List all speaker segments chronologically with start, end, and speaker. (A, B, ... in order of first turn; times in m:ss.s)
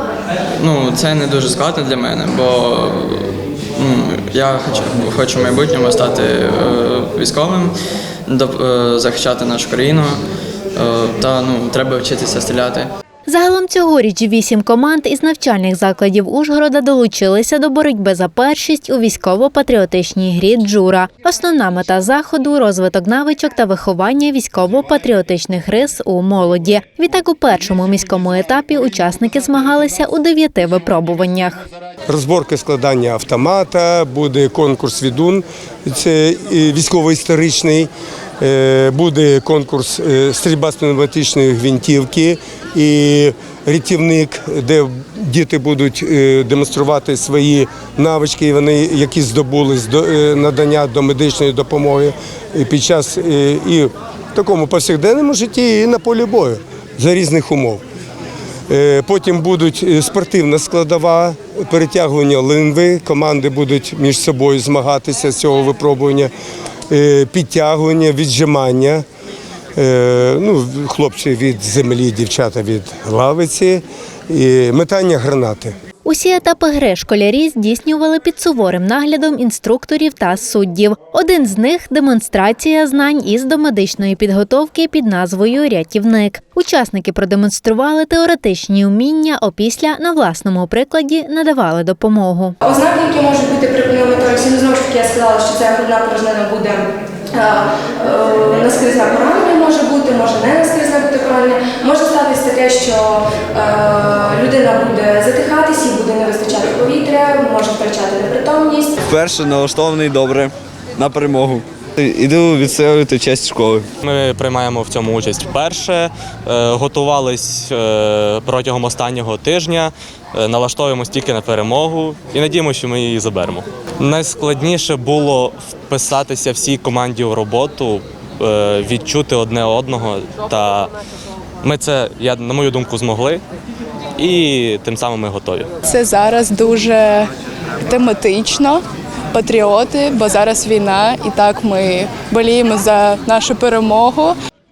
0:00.6-0:07.8 A
0:08.3-0:10.2 A
0:10.8-0:12.9 A
0:13.3-0:31.7 B
0:32.1-0:57.8 C
0:58.7-1:06.3 C
1:06.9-1:09.0 C
1:09.8-1:15.7 C
1:16.0-1:32.6 B
1:32.6-1:48.9 D
1:49.1-1:53.8 E
1:54.0-2:10.9 F
2:11.6-2:13.4 F
2:14.2-2:15.7 F
2:15.9-2:17.3 G
2:17.8-2:24.3 G